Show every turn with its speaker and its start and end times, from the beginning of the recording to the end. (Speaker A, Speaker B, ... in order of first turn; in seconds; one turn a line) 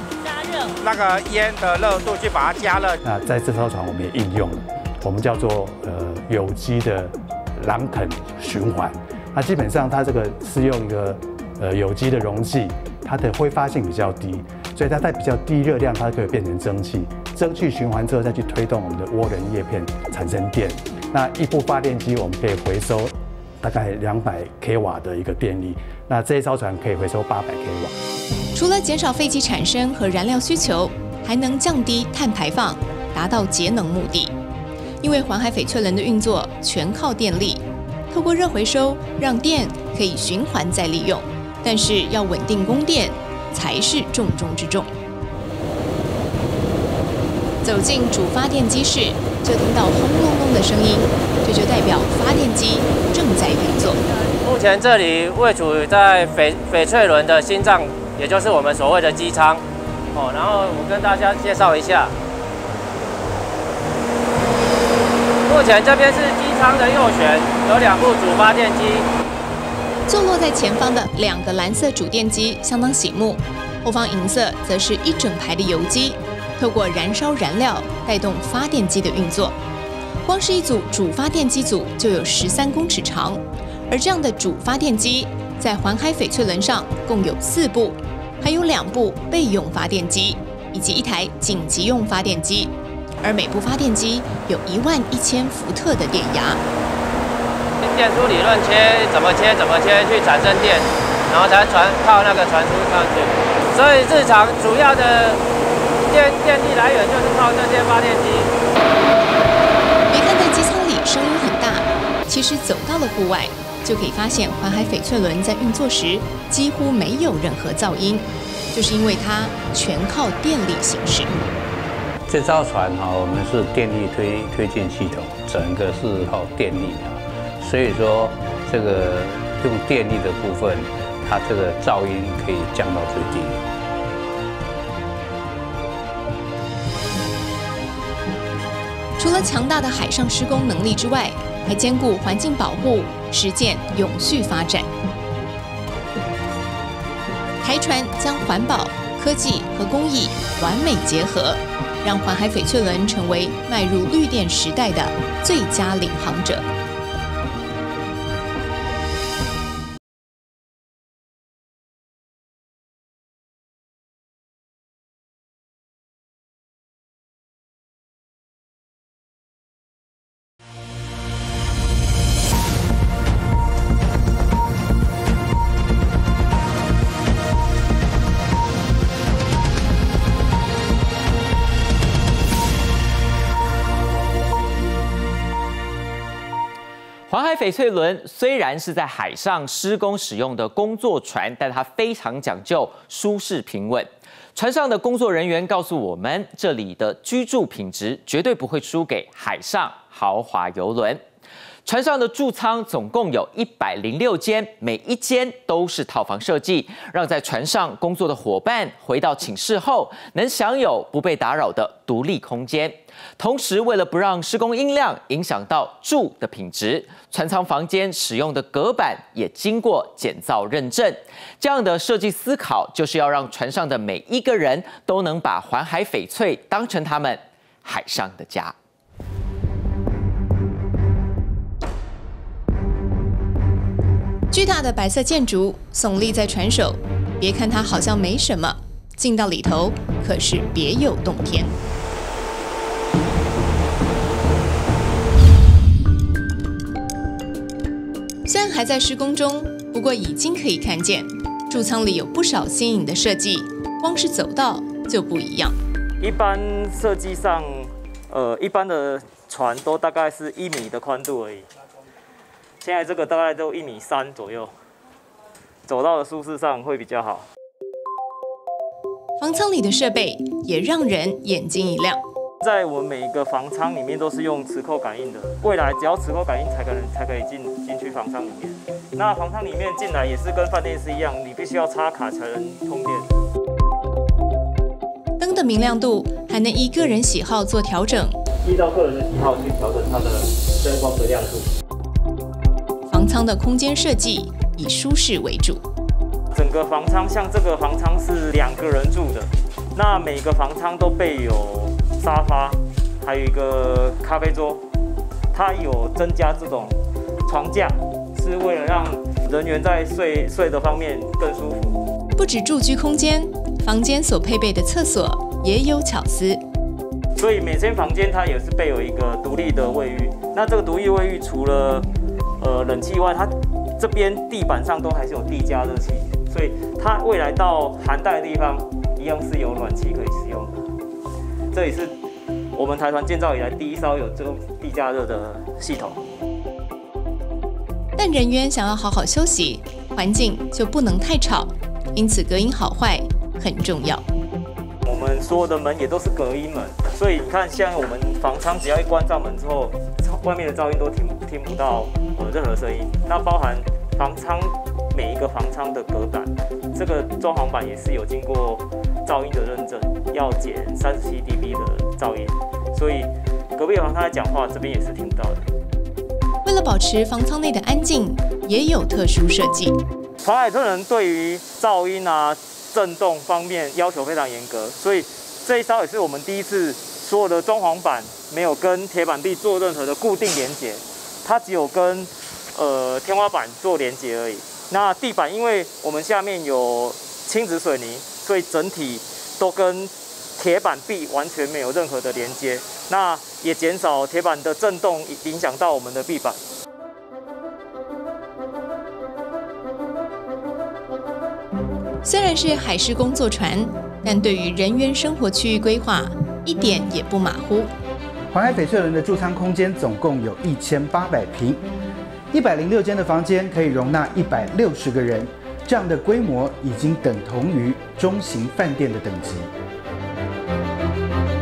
Speaker A: 0.8-3.0
Speaker B: 3.0-27.9
Speaker C: 28.5-34.3
Speaker C: 35.0-44.9
Speaker C: 47.6-54.0
Speaker D: 54.4-59.6
Speaker D: 60.1-62.1
Speaker D: 65.5-69.1
Speaker C: 70.1-79.6
Speaker C: 80.2-96.6
Speaker D: 97.8-105.4
Speaker D: 106.1-108.5
Speaker C: 110.1-121.3
Speaker E: 122.3-133.6
Speaker C: 139.2-144.9
Speaker C: 147.6-156.7
Speaker F: 187.3-201.2
Speaker F: 201.8-228.7
Speaker C: 234.5-241.7
Speaker C: 248.4-255.8
Speaker G: 256.2-261.7
Speaker G: 262.8-264.7
Speaker G: 265.9-267.4
Speaker C: 269.4-272.2
Speaker G: 272.6-283.3
Speaker C: 285.4-288.4
Speaker G: 288.6-291.7
Speaker C: 293.1-295.8
Speaker G: 296.5-304.8
Speaker G: 305.5-312.0
Speaker C: 312.4-316.6
Speaker G: 317.4-322.1
Speaker G: 322.6-330.8
Speaker G: 331.7-332.1
Speaker G: 332.7-336.2
Speaker C: 338.1-344.2
Speaker G: 345.1-365.7
Speaker C: 366.6-370.0
Speaker G: 370.4-396.6
Speaker C: 402.2-407.9
Speaker H: 408.5-411.8
Speaker H: 412.5-419.7